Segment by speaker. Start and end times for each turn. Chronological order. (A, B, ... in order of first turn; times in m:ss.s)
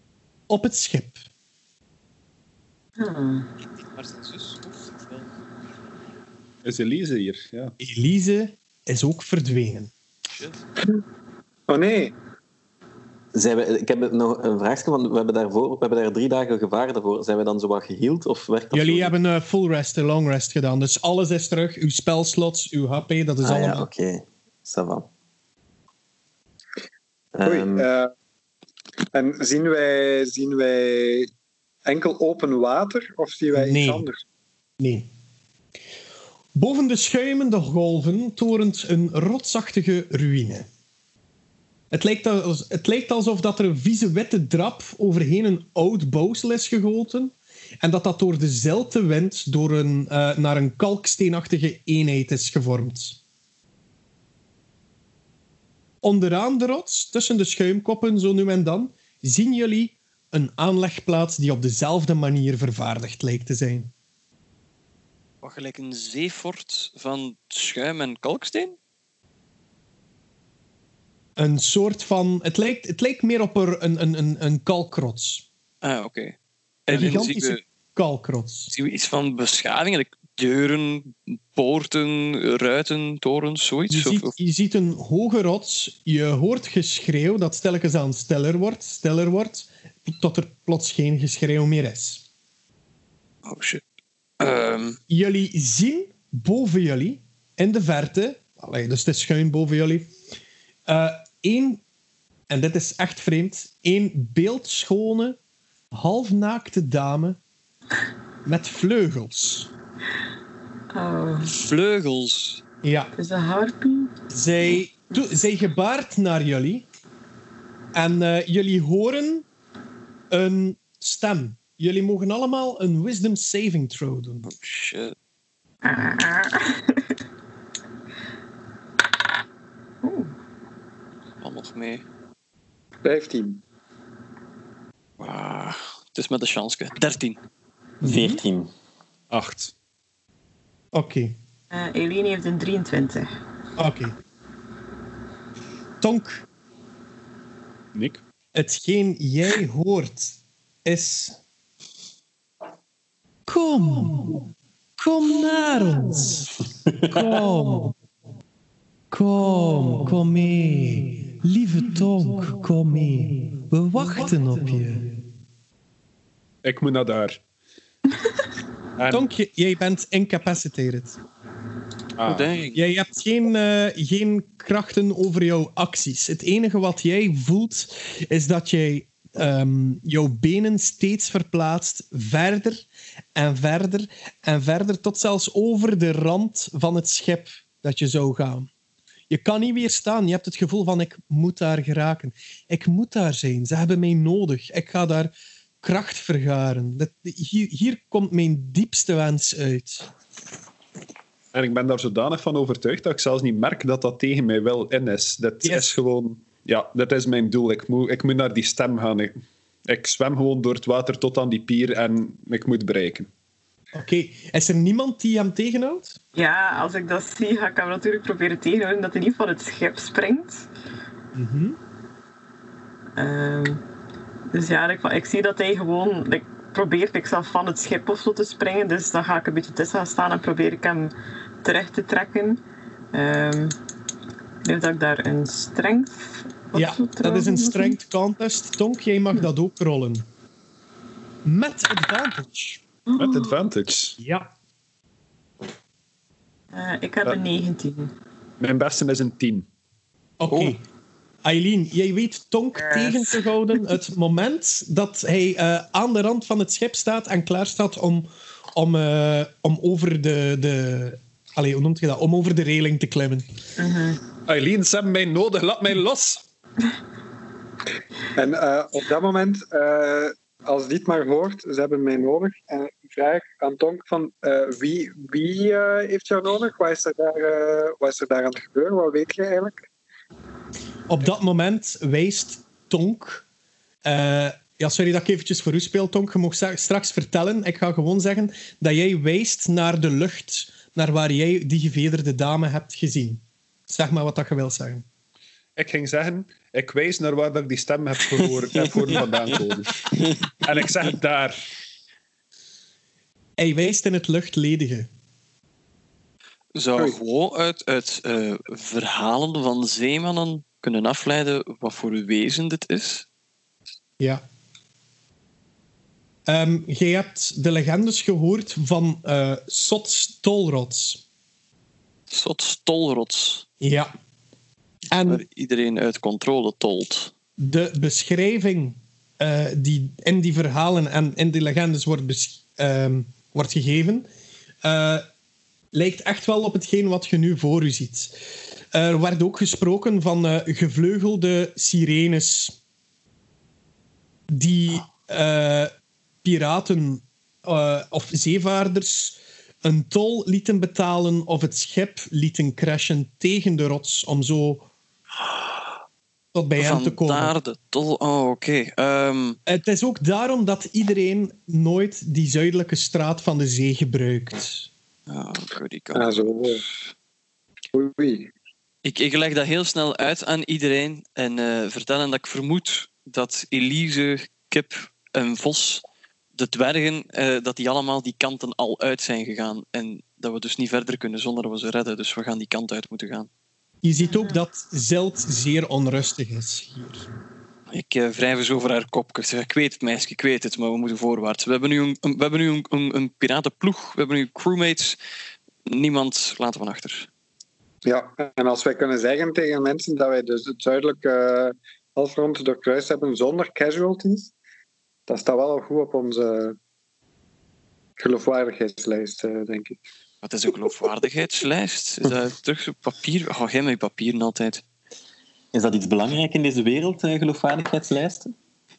0:00.5-0:01.2 A
0:03.0-0:03.5 B
0:03.7-0:05.4 C
0:06.6-0:07.7 D
0:07.8-0:09.9 A
0:10.3-0:10.6 C
0:11.7-0:12.2 E
0:13.3-0:19.1 F
0:18.7-0:23.9 A
0:23.4-0:25.1 F
0:27.3-0:27.9 F
0:27.4-0:28.1 E
0:29.1-0:31.3 E
0:31.8-0:34.2 E
0:33.5-0:34.1 A
0:34.8-0:35.1 A
0:36.5-0:40.6 A
0:41.9-0:53.2 A
0:56.0-1:03.9 A
1:05.4-1:08.8 C
1:11.4-1:15.4 A
1:15.8-1:16.3 C
1:16.9-1:17.6 C
1:16.9-1:18.7 A
1:18.7-1:24.3 C
1:23.9-1:32.2 A
1:33.4-1:33.8 C
1:34.4-1:35.0 C
1:35.1-1:40.1 A
1:40.9-1:41.8 A
1:42.5-1:45.4 A
1:45.9-1:47.4 A
1:48.4-1:49.7 A
1:50.9-1:51.6 B
1:51.6-1:52.6 C
1:52.8-1:53.1 A
1:53.2-1:54.1 B
1:54.3-1:56.8 A
1:57.9-1:59.4 A
2:00.3-2:04.5 A
2:04.5-2:05.1 C
2:05.8-2:07.1 B
2:10.0-2:10.3 B
2:11.4-2:12.0 C
2:13.0-2:13.6 E
2:15.2-2:17.4 C
2:18.0-2:18.4 A
2:18.0-2:18.7 F
2:19.3-2:19.7 D
2:20.9-2:21.3 A
2:21.7-2:23.3 B
2:23.8-2:24.1 A
2:26.0-2:26.4 A
2:27.9-2:28.2 D
2:28.5-2:31.4 A
2:33.5-2:34.4 A
2:35.0-2:36.5 A
2:37.1-2:37.9 A
2:39.1-2:45.2 A
2:46.6-2:47.4 D
2:49.0-2:49.3 D
2:49.1-2:51.2 A
2:52.2-2:52.5 D
2:52.2-2:52.8 C
2:52.7-3:08.7 A
3:09.3-3:20.1 A
3:21.5-3:29.3 D
3:25.6-3:25.9 A
3:29.8-3:33.3 D
3:33.9-3:36.2 A
3:36.3-3:40.7 B
3:41.3-3:41.8 A
3:43.2-3:43.8 B
3:44.5-3:52.6 B
3:53.1-3:53.7 B
3:54.6-3:58.0 B
3:56.7-4:00.2 A
4:01.4-4:02.8 A
4:03.1-4:03.6 B
4:03.1-4:04.2 D
4:04.2-4:04.5 A
4:06.7-4:08.1 B
4:08.6-4:09.6 D
4:10.4-4:10.8 A
4:10.5-4:10.8 C
4:11.4-4:23.4 A
4:23.8-4:24.2 B
4:24.5-4:26.4 D
4:28.3-4:39.9 E
4:41.1-4:43.4 A
4:44.0-4:55.0 A
4:55.8-5:00.0 D
4:58.4-5:00.6 C
5:00.6-5:01.6 D
5:03.6-5:05.1 A
5:06.7-5:13.2 C
5:16.5-5:21.2 A
5:22.3-5:23.6 C
5:23.8-5:24.1 A
5:25.1-5:25.4 A
5:25.3-5:27.3 C
5:27.6-5:34.3 A
5:34.8-5:35.2 A
5:35.9-5:38.3 A
5:38.9-5:42.7 A
5:44.5-5:45.9 A
5:46.4-5:54.9 A
5:56.5-5:57.5 A
5:56.8-5:59.6 C
5:59.6-6:04.9 A
6:05.3-6:07.1 C
6:06.1-6:06.8 E
6:07.9-6:08.5 E
6:09.0-6:16.0 C
6:16.5-6:23.5 C
6:24.0-6:27.2 A
6:24.2-6:24.6 B
6:27.9-6:35.2 C
6:35.9-6:37.3 C
6:38.0-6:44.5 E
6:45.3-6:46.8 E
6:48.2-6:50.0 E
6:50.4-6:54.8 C
6:55.7-6:58.5 F